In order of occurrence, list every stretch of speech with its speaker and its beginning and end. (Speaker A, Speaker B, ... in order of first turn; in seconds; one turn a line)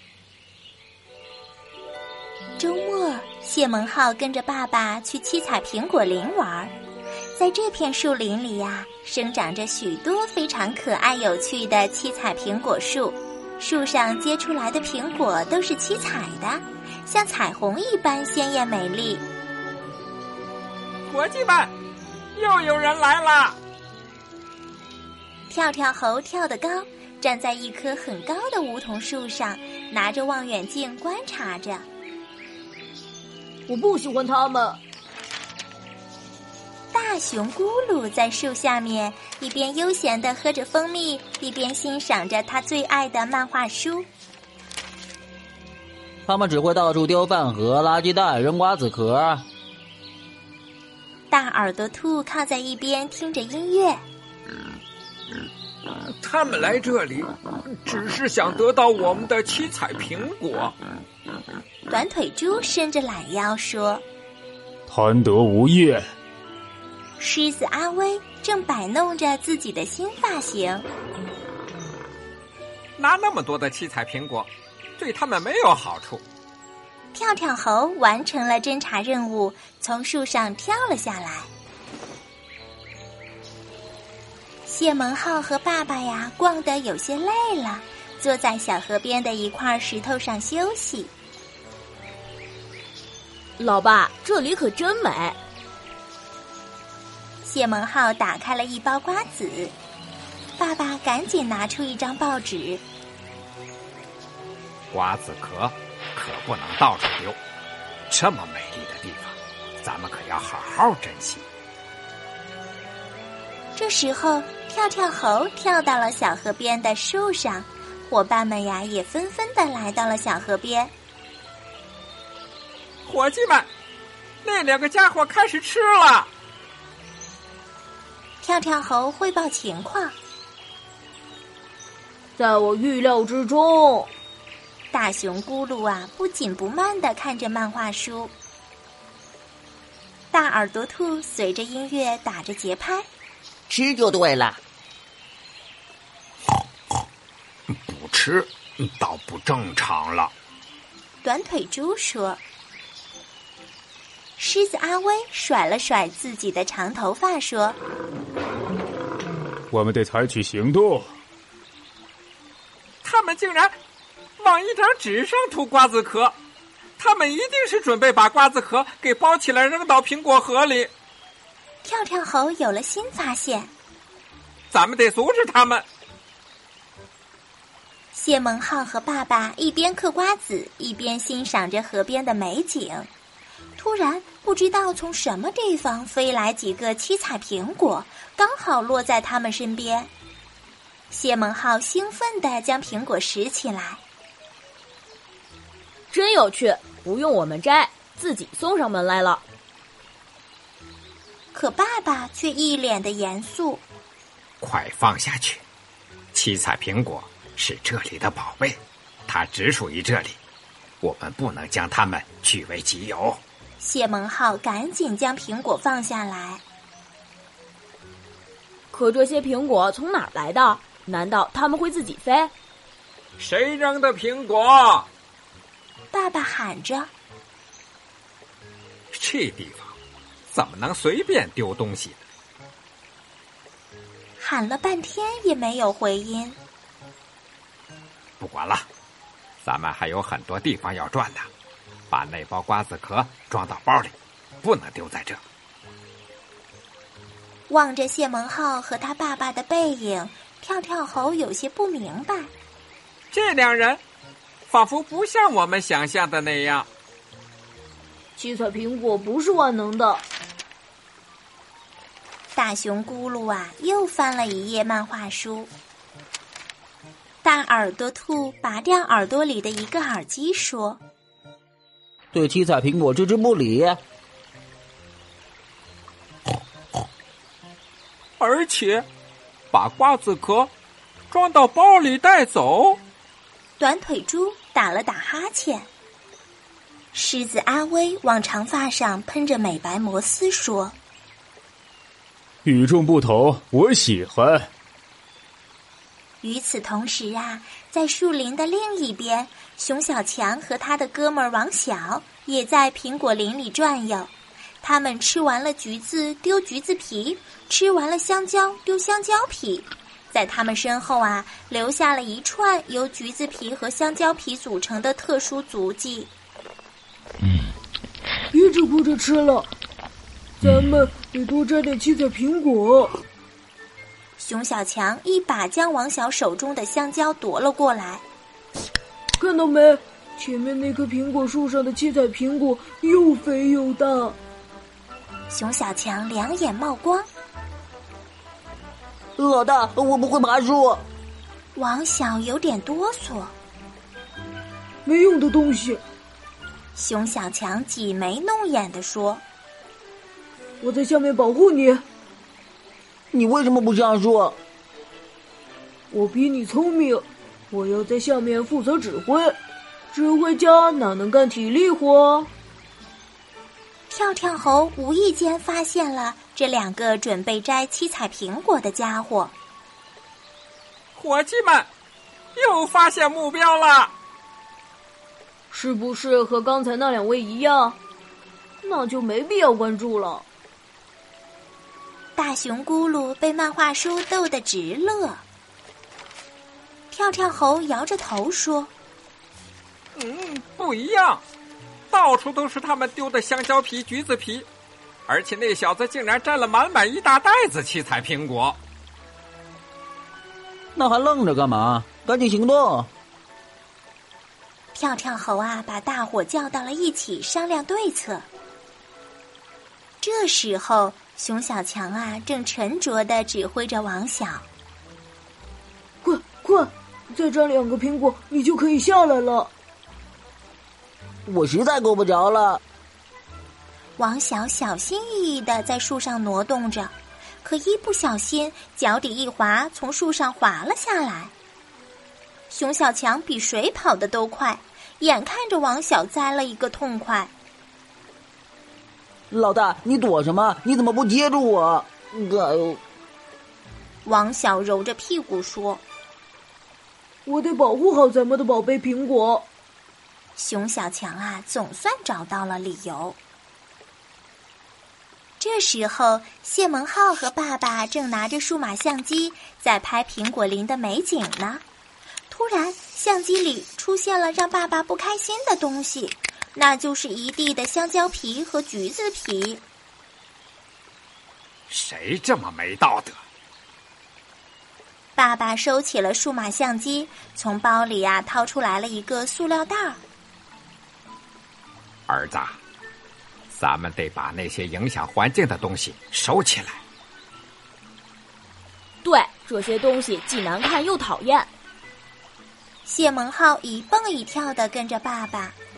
Speaker A: 2.6-6.7
Speaker A: 7.3-19.2
Speaker B: 21.1-21.7
Speaker B: 22.3-23.6
Speaker A: 25.5-31.9
Speaker C: 33.7-34.8
Speaker A: 36.9-44.1
Speaker D: 46.2-49.5
Speaker A: 51.3-54.0
Speaker B: 56.2-60.7
Speaker A: 61.9-64.0
Speaker E: 64.9-66.0
Speaker A: 67.2-70.9
Speaker B: 73.0-76.2
Speaker A: 77.1-81.5
Speaker A: 84.7-91.1
Speaker F: 93.6-95.4
Speaker A: 97.4-99.7
Speaker A: 100.6-102.8
Speaker B: 104.9-107.4
Speaker B: 108.1-111.4
Speaker A: 113.8-120.9
Speaker B: 123.0-123.7
Speaker B: 124.4-126.3
Speaker A: 128.4-130.1
Speaker C: 132.4-134.1
Speaker A: 134.9-138.3
Speaker A: 140.3-143.1
Speaker D: 143.7-144.6
Speaker B: 147.7-150.3
Speaker A: 151.2-152.4
Speaker A: 154.4-157.8
Speaker E: 159.7-161.1
Speaker B: 163.0-163.7
Speaker B: 164.4-166.3
Speaker B: 167.0-170.9
Speaker A: 171.8-173.7
Speaker B: 174.7-175.8
Speaker A: 178.1-183.1
Speaker A: 183.8-190.1
Speaker A: 191.1-194.0
Speaker F: 196.1-199.4
Speaker A: 201.5-203.8
Speaker B: 204.6-205.6
Speaker B: 206.3-210.3
Speaker B: 211.0-213.4
Speaker A: 213.8-216.6
Speaker F: 218.9-222.5
Speaker B: 223.4-225.1
Speaker A: 226.1-227.1
Speaker B: 229.1-229.9
Speaker B: 230.5-232.2
Speaker A: 234.4-236.6
Speaker B: 238.4-238.8
Speaker B: 239.6-241.5
Speaker B: 242.1-245.4
Speaker A: 247.7-252.5
Speaker B: 253.3-254.0
Speaker B: 254.7-256.9
Speaker C: 258.4-260.2
Speaker A: 262.5-265.7
Speaker A: 267.4-271.0
Speaker D: 272.3-274.0
Speaker B: 278.4-279.1
Speaker B: 279.7-280.7
Speaker B: 281.3-283.0
Speaker A: 283.8-285.9
Speaker A: 287.1-290.9
Speaker E: 292.6-294.7
Speaker A: 296.4-316.3
Speaker C: 318.5-319.6
Speaker C: 320.8-323.1
Speaker A: 324.4-328.2
Speaker C: 329.4-334.3
Speaker A: 335.5-337.3
Speaker D: 339.4-341.0
Speaker A: 341.7-343.5
Speaker C: 345.1-346.0
Speaker A: 346.9-349.4
Speaker C: 350.8-352.0
Speaker D: 353.3-354.6
Speaker C: 356.1-357.2
Speaker C: 357.7-359.4
Speaker C: 360.1-362.5
Speaker A: 364.1-369.5
Speaker B: 371.1-371.9
Speaker B: 372.6-374.1
Speaker C: 375.7-378.0
Speaker C: 378.8-380.4
Speaker A: 382.4-385.4
Speaker A: 387.1-388.9
Speaker B: 390.2-391.4
Speaker B: 392.1-394.7
Speaker B: 395.3-398.8
Speaker D: 400.9-403.1
Speaker A: 404.9-408.5
Speaker A: 410.2-414.7
Speaker C: 416.2-419.7
Speaker D: 421.4-422.8
Speaker A: 424.2-431.5
Speaker A: 432.7-437.5
Speaker D: 439.5-443.0
Speaker A: 444.2-446.0
Speaker C: 447.4-449.6
Speaker A: 450.6-453.4
Speaker A: 455.6-461.8
Speaker A: 462.5-469.8
Speaker B: 471.9-473.4
Speaker A: 475.4-480.2
Speaker B: 482.3-482.8
Speaker B: 483.7-487.0
Speaker F: 489.2-491.7
Speaker A: 493.1-495.8